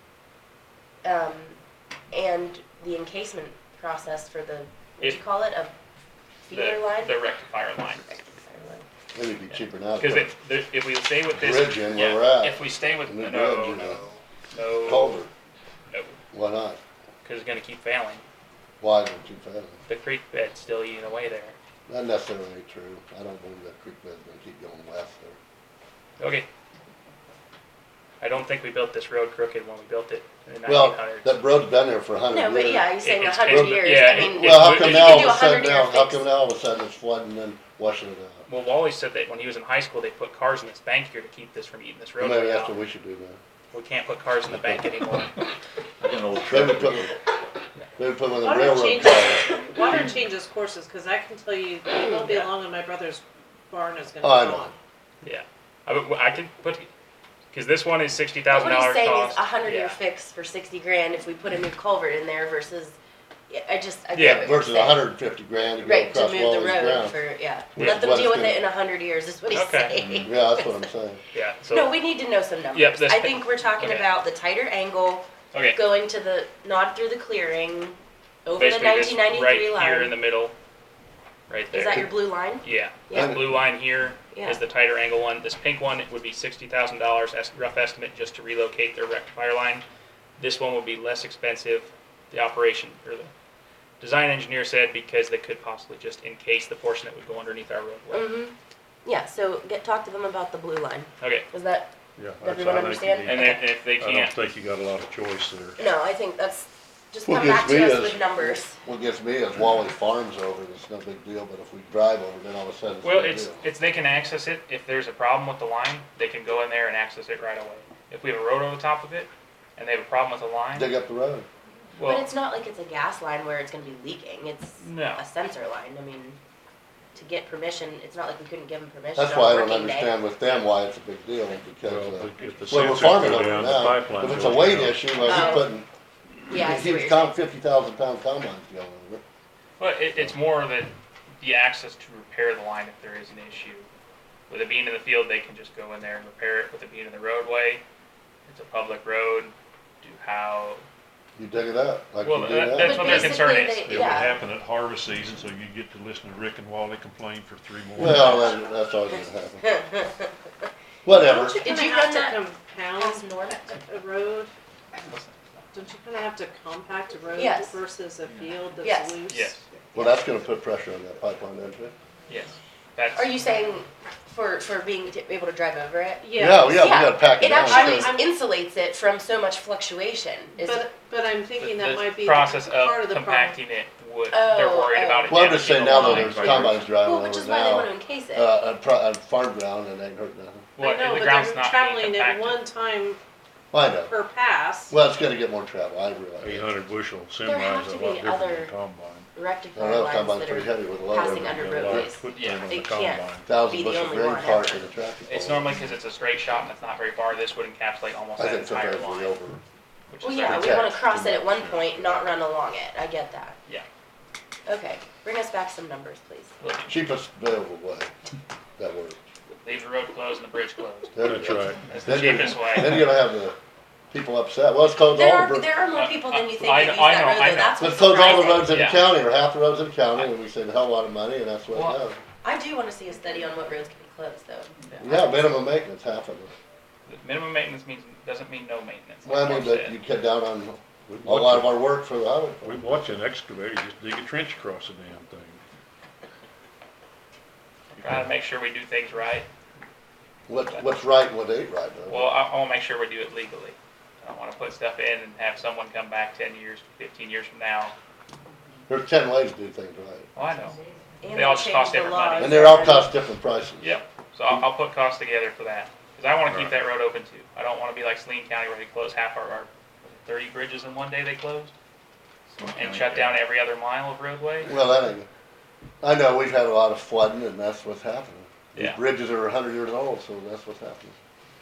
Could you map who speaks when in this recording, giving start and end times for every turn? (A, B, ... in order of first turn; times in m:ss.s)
0:01.0-0:01.6 A
0:02.1-0:05.7 A
0:06.5-0:07.2 A
0:06.5-0:08.0 B
0:08.1-0:08.8 A
0:09.2-0:10.3 C
0:10.0-0:15.2 B
0:11.3-0:14.0 C
0:14.8-0:15.3 C
0:16.3-0:16.8 C
0:17.2-0:18.2 B
0:18.8-0:19.8 C
0:19.9-0:21.6 B
0:21.9-0:25.4 C
0:26.2-0:26.5 B
0:28.2-0:31.4 B
0:30.7-0:32.9 C
0:32.3-0:36.3 A
0:33.0-0:35.4 B
0:33.5-0:38.5 C
0:38.5-0:42.8 B
0:42.2-0:43.4 C
0:43.7-0:45.4 B
0:44.5-0:44.8 C
0:46.0-0:47.2 D
0:46.5-0:47.1 C
0:48.0-0:50.0 C
0:48.4-0:54.7 E
0:52.2-0:52.5 B
0:54.2-0:54.7 C
0:55.2-0:56.9 B
0:57.5-1:00.0 B
0:58.5-1:03.0 A
1:03.5-1:05.0 A
1:04.2-1:04.5 B
1:04.2-1:07.2 C
1:05.8-1:10.9 A
1:07.8-1:08.6 C
1:07.8-1:08.0 B
1:09.5-1:10.0 B
1:10.0-1:10.3 D
1:10.2-1:11.2 C
1:11.3-1:12.0 B
1:11.7-1:20.2 A
1:12.7-1:14.1 B
1:15.5-1:15.8 B
1:18.6-1:20.6 B
1:21.5-1:29.8 B
1:21.7-1:23.4 A
1:23.1-1:23.5 C
1:24.3-1:24.6 A
1:30.4-1:33.3 B
1:34.0-1:38.3 B
1:38.1-1:43.6 A
1:41.2-1:41.5 B
1:42.2-1:45.8 F
1:43.2-1:44.4 B
1:45.8-1:48.8 A
1:47.3-1:53.6 C
1:53.0-2:00.9 B
2:00.8-2:01.5 C
2:02.0-2:02.3 B
2:02.0-2:06.4 A
2:04.8-2:05.2 B
2:07.1-2:10.2 A
2:09.2-2:15.9 C
2:11.8-2:15.4 F
2:15.2-2:15.7 A
2:16.5-2:17.3 A
2:16.5-2:19.2 C
2:19.8-2:23.9 B
2:24.5-2:27.8 B
2:28.5-2:30.8 B
2:31.4-2:33.4 C
2:32.2-2:34.0 B
2:32.7-2:34.4 A
2:33.2-2:38.6 F
2:38.0-2:39.6 C
2:39.6-2:40.3 A
2:41.0-2:41.6 C
2:41.1-2:44.5 E
2:41.5-2:43.8 A
2:45.0-2:45.6 B
2:45.7-2:49.6 E
2:47.3-2:47.8 A
2:48.8-2:49.2 A
2:49.3-2:49.6 B
2:49.9-2:51.9 C
2:52.3-2:53.4 B
2:53.2-3:00.8 A
2:56.2-2:57.1 E
2:56.4-2:58.2 C
2:57.6-2:58.3 E
3:00.6-3:03.6 E
3:01.6-3:06.7 B
3:04.3-3:05.4 A
3:05.3-3:10.7 C
3:05.8-3:06.8 F
3:07.0-3:08.5 A
3:10.8-3:12.6 B
3:10.8-3:13.2 E
3:13.7-3:14.2 C
3:14.1-3:15.0 E
3:14.9-3:16.7 C
3:16.4-3:19.3 F
3:17.4-3:18.7 A
3:19.4-3:24.9 A
3:19.8-3:22.1 C
3:21.2-3:23.5 F
3:22.3-3:22.7 B
3:23.5-3:25.8 C
3:25.3-3:29.4 B
3:28.4-3:29.6 C
3:30.1-3:30.8 B
3:30.2-3:33.6 A
3:30.4-3:32.2 C
3:34.7-3:36.5 A
3:36.6-3:36.9 B
3:36.9-3:38.1 C
3:38.8-3:39.2 C
3:39.6-3:41.2 B
3:41.2-3:43.6 C
3:41.2-3:42.3 F
3:41.8-3:43.1 B
3:44.1-3:45.7 C
3:45.1-3:48.8 A
3:45.9-3:49.2 B
3:47.8-3:52.2 C
3:51.7-3:52.0 B
3:52.4-3:54.7 A
3:54.9-3:55.2 B
3:55.0-3:56.5 C
3:57.1-4:00.0 B
3:59.3-4:02.9 C
4:01.1-4:01.8 F
4:02.6-4:05.6 F
4:08.0-4:08.3 F
4:08.0-4:09.5 B
4:10.5-4:12.3 C
4:12.1-4:17.9 B
4:18.9-4:20.3 C
4:20.4-4:20.8 B
4:21.2-4:23.1 A
4:21.3-4:22.7 B
4:22.4-4:24.0 C
4:23.8-4:31.7 B
4:26.5-4:26.8 D
4:32.6-4:33.4 D
4:32.7-4:34.7 B
4:34.7-4:35.3 C
4:36.0-4:41.2 C
4:38.8-4:39.0 B